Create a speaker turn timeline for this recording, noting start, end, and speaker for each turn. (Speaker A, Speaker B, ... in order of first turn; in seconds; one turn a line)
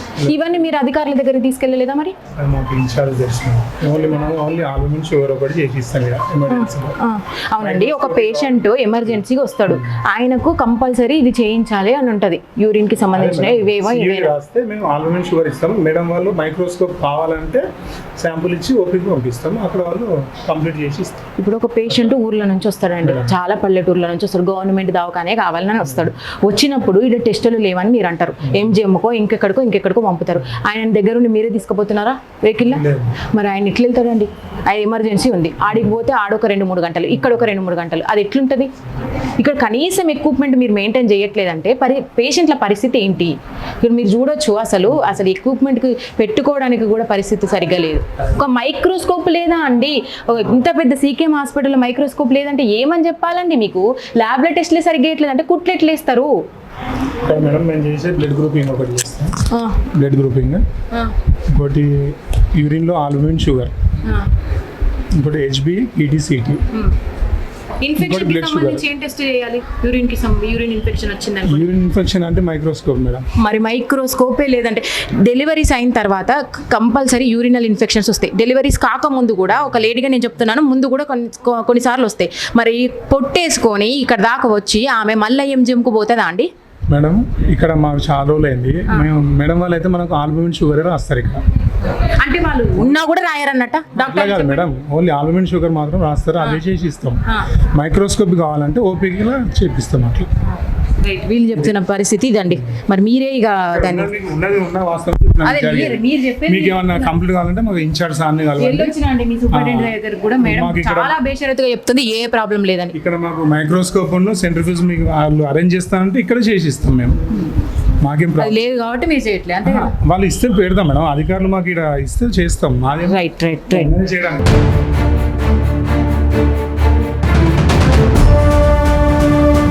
Speaker A: 0.2-2.1
Speaker B: 2.4-7.0
Speaker A: 6.5-14.3
Speaker B: 7.6-9.1
Speaker B: 13.1-17.6
Speaker B: 18.2-21.2
Speaker A: 21.4-38.7
Speaker B: 23.0-23.3
Speaker B: 32.7-33.1
Speaker A: 39.4-56.3
Speaker B: 57.2-59.3
Speaker A: 59.5-59.8
Speaker B: 60.0-60.6
Speaker B: 61.5-63.7
Speaker B: 65.2-66.6
Speaker A: 67.8-71.7
Speaker B: 68.0-68.8
Speaker B: 71.5-73.2
Speaker A: 73.4-86.5
Speaker B: 86.9-91.4
Speaker A: 91.9-94.7
Speaker B: 94.0-97.2
Speaker B: 97.8-100.3
Speaker A: 101.0-104.1
Speaker B: 103.8-108.9
Speaker A: 105.4-107.2
Speaker A: 108.6-113.0
Speaker B: 109.5-111.1
Speaker B: 112.9-117.2
Speaker B: 118.0-118.6
Speaker A: 118.4-119.9
Speaker B: 119.7-124.5
Speaker A: 123.0-124.0